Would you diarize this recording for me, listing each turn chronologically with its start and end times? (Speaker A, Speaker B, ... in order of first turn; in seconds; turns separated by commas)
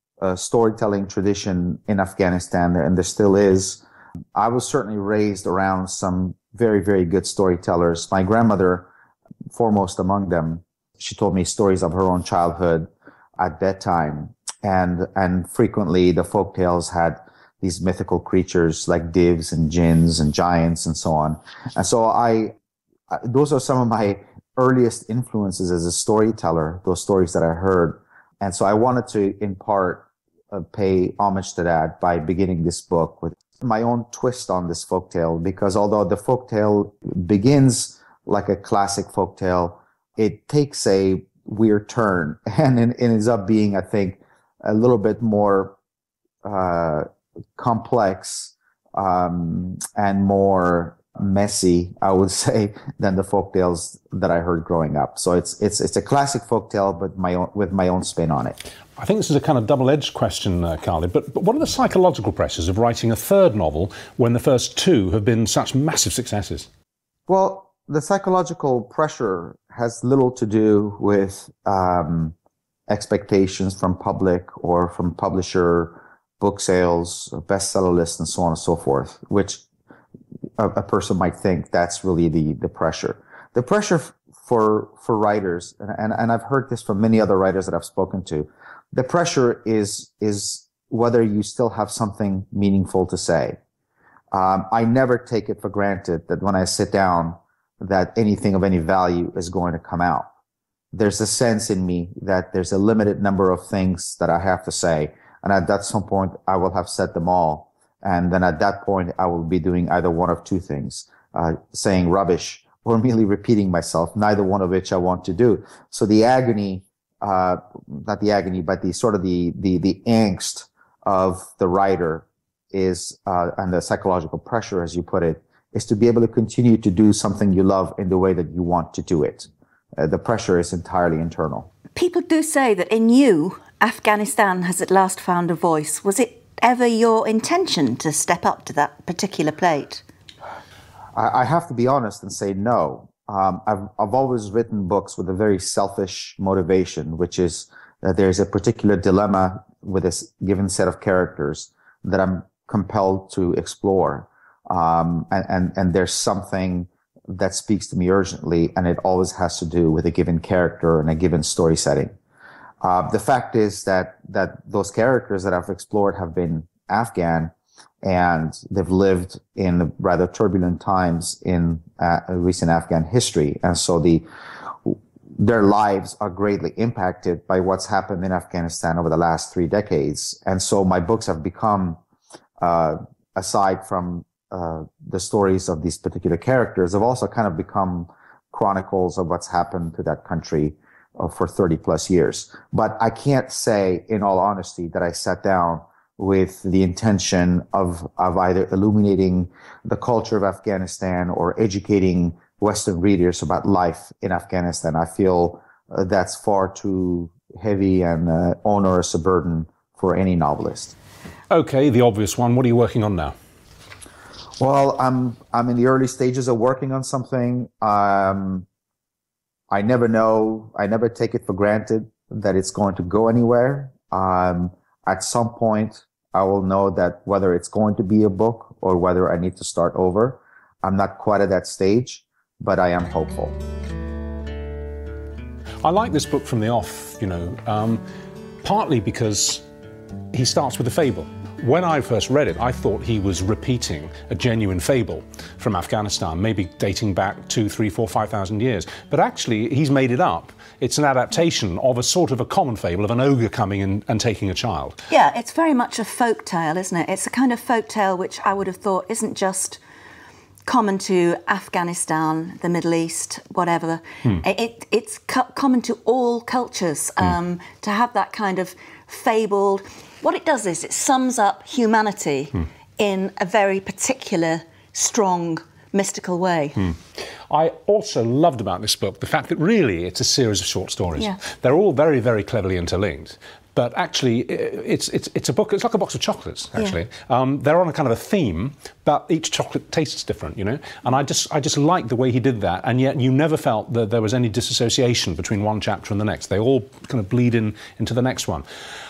Speaker A: 0.2-3.8, Speaker A: 4.3-8.9, Speaker A: 9.5-22.5, Speaker A: 23.1-45.8, Speaker A: 46.4-58.6, Speaker B: 59.0-66.7, Speaker A: 67.3-72.3, Speaker A: 72.9-79.6, Speaker A: 80.6-93.6, Speaker A: 94.3-100.3, Speaker A: 100.9-131.7, Speaker C: 131.9-140.0, Speaker A: 141.1-162.1, Speaker A: 162.8-167.5, Speaker A: 168.0-174.2, Speaker A: 174.8-182.0, Speaker A: 182.6-210.9, Speaker B: 211.5-213.3, Speaker A: 214.6-218.7, Speaker A: 219.7-233.6, Speaker B: 235.8-238.0, Speaker B: 238.6-239.6, Speaker B: 240.3-254.9, Speaker C: 255.1-259.8, Speaker C: 260.6-276.9, Speaker B: 277.5-298.6, Speaker C: 281.2-281.4